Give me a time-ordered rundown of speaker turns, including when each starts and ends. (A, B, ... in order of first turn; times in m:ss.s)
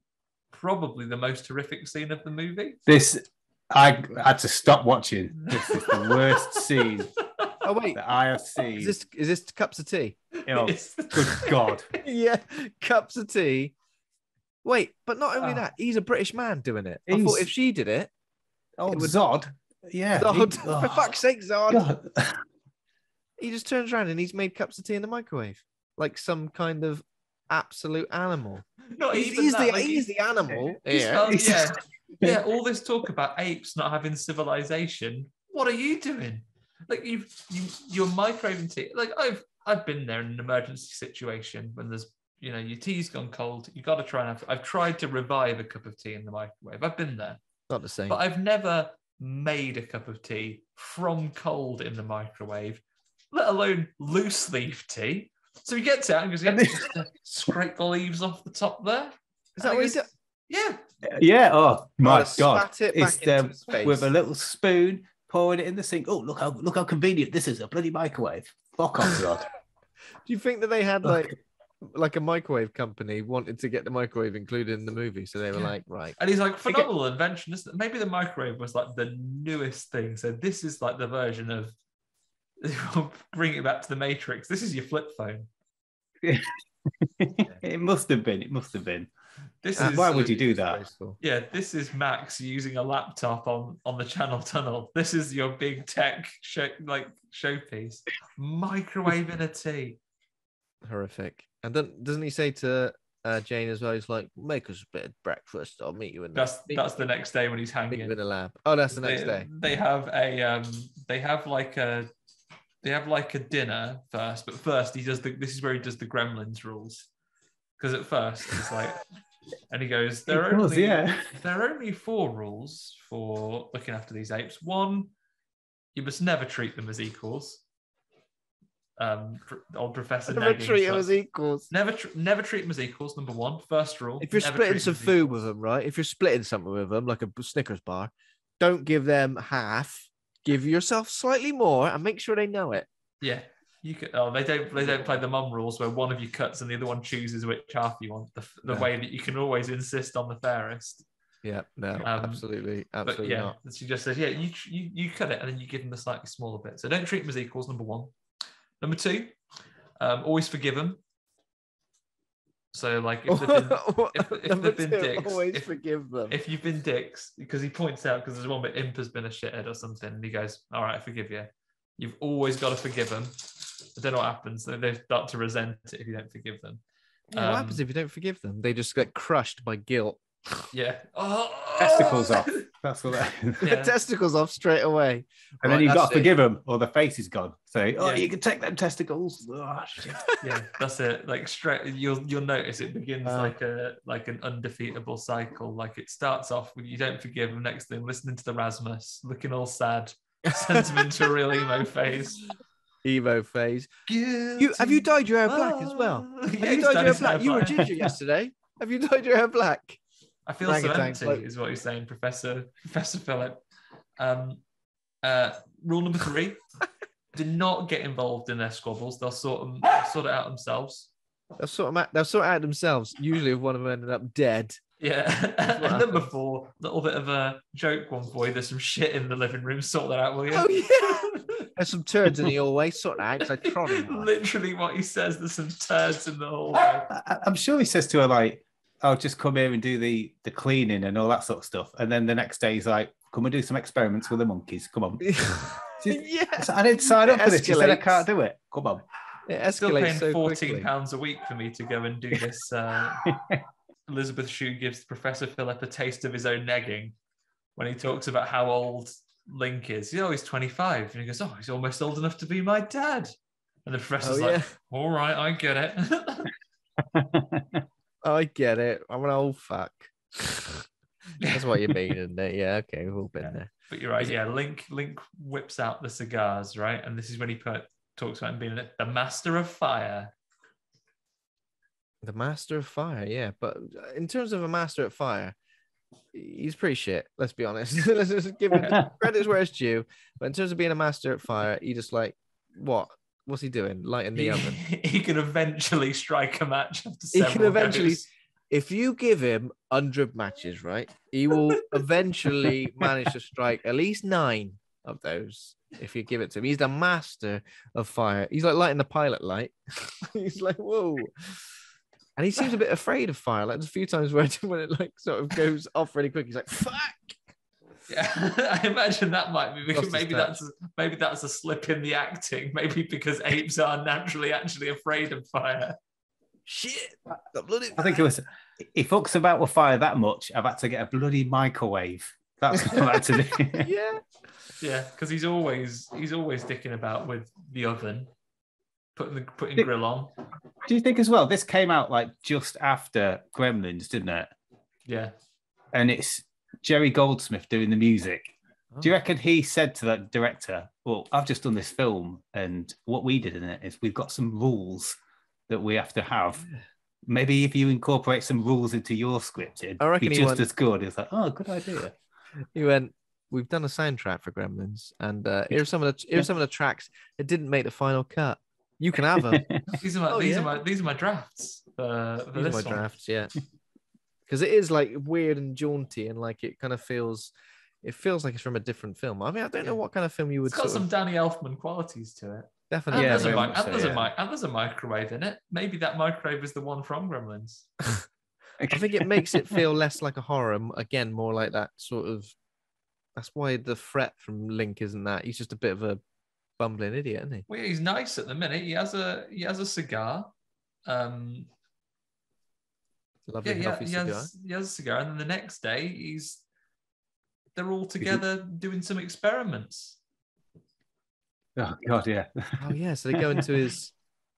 0:00.5-0:02.8 A
0:02.9-0:07.1 B
0:05.4-0:06.9 A
0:07.6-0:08.0 C
0:07.9-0:09.0 B
0:08.8-0:10.2 C
0:10.4-0:11.8 A
0:10.5-0:11.9 B
0:12.0-0:13.7 C
0:14.6-0:18.1 C
0:15.4-0:15.6 A
0:17.1-0:17.5 B
0:18.8-0:21.1 B
0:18.9-0:19.2 C
0:20.1-0:21.9 C
0:21.7-0:22.4 B
0:23.4-0:31.4 C
0:28.9-0:47.4 A
0:31.3-0:31.7 B
0:47.7-0:48.2 C
0:48.1-1:00.8 A
0:56.5-0:56.9 B
0:59.6-1:00.1 C
1:01.0-1:09.5 B
1:02.0-1:04.1 C
1:10.2-1:16.2 C
1:15.5-1:21.7 A
1:22.6-1:25.5 A
1:26.2-1:26.5 B
1:27.0-1:29.1 B
1:29.6-1:30.4 A
1:29.8-1:30.8 B
1:29.8-1:31.2 C
1:31.2-1:40.0 A
1:40.8-1:47.0 C
1:46.3-1:48.2 A
1:47.9-1:49.5 C
1:48.9-1:52.1 A
1:52.8-1:57.1 A
1:57.8-1:59.0 A
1:59.7-2:05.1 A
2:00.3-2:01.4 B
2:05.9-2:07.6 A
2:09.0-2:11.1 A
2:10.3-2:11.7 C
2:11.7-2:15.4 A
2:14.2-2:22.9 C
2:23.2-2:31.0 A
2:24.8-2:25.2 C
2:31.4-2:33.6 C
2:32.0-2:32.4 A
2:33.0-2:38.1 A
2:38.8-2:39.4 A
2:40.0-2:41.0 A
2:42.7-2:45.7 A
2:43.3-2:46.4 C
2:46.3-2:56.8 A
2:57.3-3:00.7 C
2:57.3-2:57.8 A
3:00.7-3:02.7 A
3:01.8-3:03.6 B
3:03.6-3:06.3 C
3:03.6-3:03.9 A
3:05.6-3:10.4 B
3:08.0-3:08.3 A
3:10.1-3:10.3 C
3:10.4-3:22.5 A
3:13.2-3:13.5 C
3:20.5-3:21.3 C
3:23.0-3:23.9 C
3:24.1-3:28.0 A
3:24.6-3:30.0 C
3:30.5-3:33.6 A
3:30.6-3:31.4 C
3:34.2-3:34.6 A
3:35.2-3:36.6 A
3:37.3-3:41.1 A
3:41.6-3:44.8 C
3:45.0-3:51.7 A
3:45.7-3:46.3 C
3:50.5-3:54.3 C
3:53.4-3:57.1 A
3:57.1-4:09.0 B
4:05.2-4:08.3 C
4:09.4-4:10.9 C
4:09.8-4:13.3 A
4:13.2-4:13.6 B
4:14.1-4:17.1 A
4:17.8-4:23.3 A
4:23.8-4:26.5 A
4:24.2-4:24.7 C
4:27.1-4:27.8 B
4:28.2-4:30.9 C
4:31.4-4:32.0 A
4:31.5-4:33.7 C
4:33.4-4:40.3 A
4:42.2-4:45.5 C
4:46.3-4:54.8 C
4:48.7-4:49.0 A
4:54.3-4:58.3 A
4:57.3-5:11.6 C
5:12.4-5:17.4 C
5:18.1-5:26.0 A
5:19.9-5:20.6 C
5:26.6-5:28.2 C
5:28.0-5:33.9 B
5:33.8-5:34.2 C
5:34.8-5:38.3 A
5:39.1-5:40.3 A
5:40.8-5:44.5 B
5:45.0-5:45.3 A
5:45.9-5:55.2 B
5:55.7-5:56.7 B
5:57.3-6:02.1 B
6:00.0-6:00.6 C
6:02.7-6:09.6 C
6:09.9-6:13.0 A
6:10.3-6:10.7 C
6:12.5-6:13.5 C
6:14.5-6:21.1 C
6:20.7-6:27.9 A
6:22.9-6:23.8 C
6:23.1-6:24.3 B
6:28.8-6:29.8 B
6:28.9-6:32.5 C
6:33.4-6:36.2 C
6:36.8-6:37.7 C
6:37.7-6:40.5 A
6:41.0-6:41.7 A
6:43.5-6:44.5 C
6:43.6-6:46.6 A
6:47.8-6:50.2 A
6:51.8-6:53.7 B
6:52.8-6:54.1 C